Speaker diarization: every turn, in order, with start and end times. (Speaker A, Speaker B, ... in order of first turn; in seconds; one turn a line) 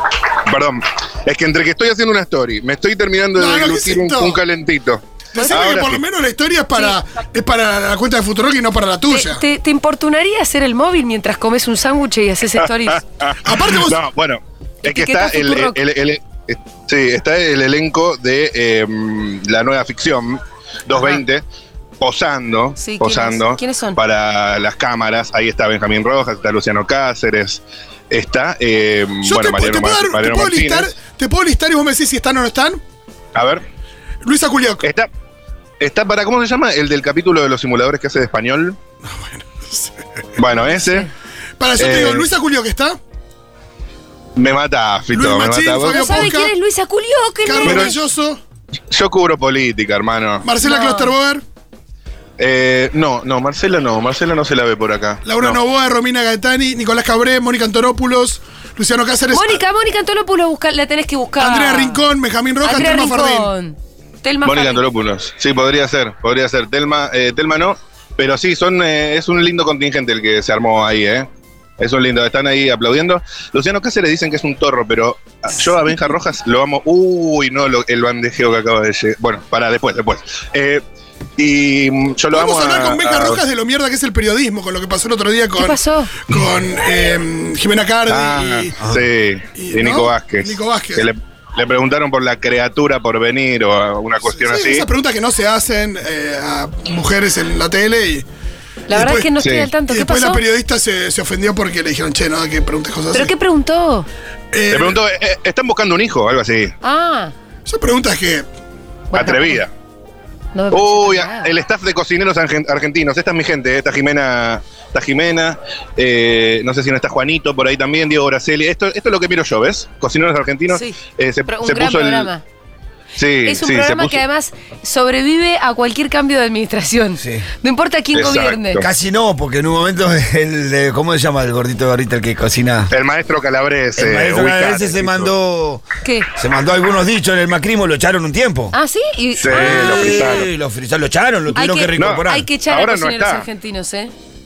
Speaker A: 0.5-6.0
Speaker B: 3.4-4.4
Speaker B: 5.3-9.4
Speaker C: 5.4-5.7
Speaker C: 9.1-13.0
Speaker A: 12.9-21.4
Speaker B: 13.4-14.0
Speaker C: 14.8-15.8
Speaker A: 22.0-31.0
Speaker C: 22.8-24.0
Speaker B: 29.2-32.8
Speaker A: 33.3-33.6
Speaker B: 34.2-34.8
Speaker A: 34.8-35.1
Speaker A: 35.8-38.8
Speaker B: 39.0-40.4
Speaker A: 40.4-41.1
Speaker B: 41.6-43.0
Speaker A: 41.8-42.3
Speaker A: 44.4-46.3
Speaker B: 45.1-46.5
Speaker C: 45.8-48.0
Speaker B: 47.4-48.4
Speaker A: 47.6-48.0
Speaker A: 48.9-50.5
Speaker B: 50.4-51.4
Speaker C: 50.6-51.1
Speaker A: 52.4-55.6
Speaker B: 55.2-59.6
Speaker C: 59.3-62.0
Speaker B: 61.4-63.5
Speaker C: 62.6-64.8
Speaker A: 64.5-71.3
Speaker A: 71.8-80.8
Speaker A: 81.4-83.4
Speaker B: 82.3-88.8
Speaker C: 85.6-86.1
Speaker A: 88.1-94.9
Speaker B: 89.5-91.1
Speaker B: 94.2-98.3
Speaker C: 98.9-100.4
Speaker B: 98.9-103.3
Speaker A: 99.4-99.7
Speaker C: 103.1-104.1
Speaker B: 104.5-105.0
Speaker A: 104.7-106.7
Speaker C: 106.8-107.3
Speaker B: 107.7-108.5
Speaker C: 109.1-109.6
Speaker A: 109.1-109.7
Speaker C: 110.5-111.5
Speaker A: 110.7-122.3
Speaker C: 120.7-122.4
Speaker A: 123.2-124.2
Speaker C: 123.5-128.8
Speaker D: 127.2-127.5
Speaker A: 128.1-128.9
Speaker D: 128.8-132.9
Speaker A: 132.9-135.3
Speaker D: 134.0-138.8
Speaker C: 138.7-140.4
Speaker A: 139.4-140.5
Speaker D: 139.5-142.5
Speaker C: 141.5-144.1
Speaker A: 142.0-143.5